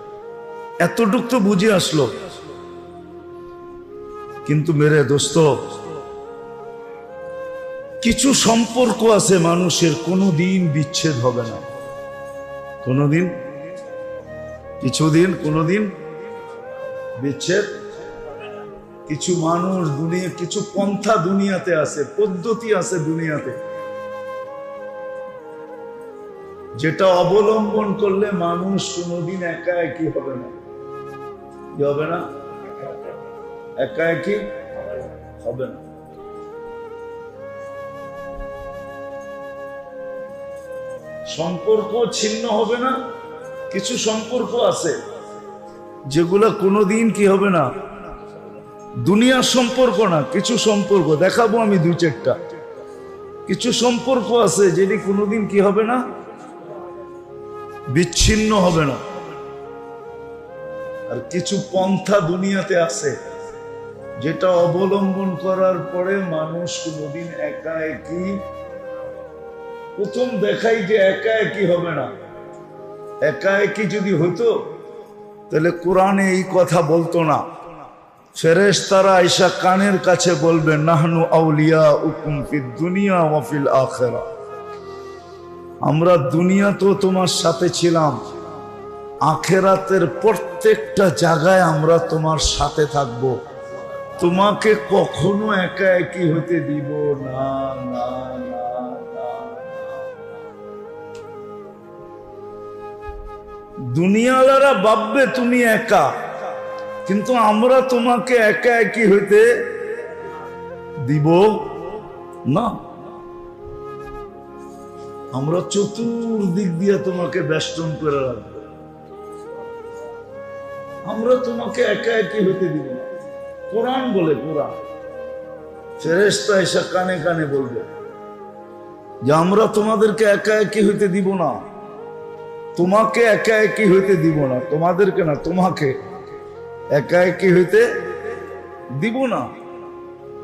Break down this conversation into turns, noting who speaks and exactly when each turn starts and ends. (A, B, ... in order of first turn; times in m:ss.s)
0:00.8-0:02.2 A
0:04.4-0:05.6 A
0:08.0-0:11.6 A
0:12.8-0:13.4 A
0:14.8-0:16.0 A
0:17.2-0:17.7 A
0:19.1-0:23.6 A
0:26.8-0:30.5 A
0:31.8-0:32.3 A
0:33.8-0:34.5 A
0:35.4-0:35.8 A
0:41.3-0:43.0 A
0:43.7-0:45.0 A
0:46.1-0:47.7 A
0:49.0-0:52.4 A
0:53.5-0:56.0 A
0:57.9-0:59.0 A
1:01.1-1:03.2 A
1:04.2-1:08.4 A
1:10.0-1:12.1 A
1:13.2-1:14.6 A
1:15.5-1:17.5 A
1:18.4-1:24.3 A
1:25.8-1:28.2 A
1:29.2-1:33.4 A
1:34.2-1:40.0 A
1:43.9-1:46.1 A
1:47.0-1:49.8 A
1:51.0-1:51.7 A
1:52.4-1:52.8 A
1:55.3-1:58.7 A
2:01.1-2:03.1 A
2:03.7-2:04.8 A
2:06.0-2:07.9 A
2:09.3-2:11.6 A
2:12.8-2:16.0 A
2:16.9-2:17.9 A
2:19.0-2:19.5 A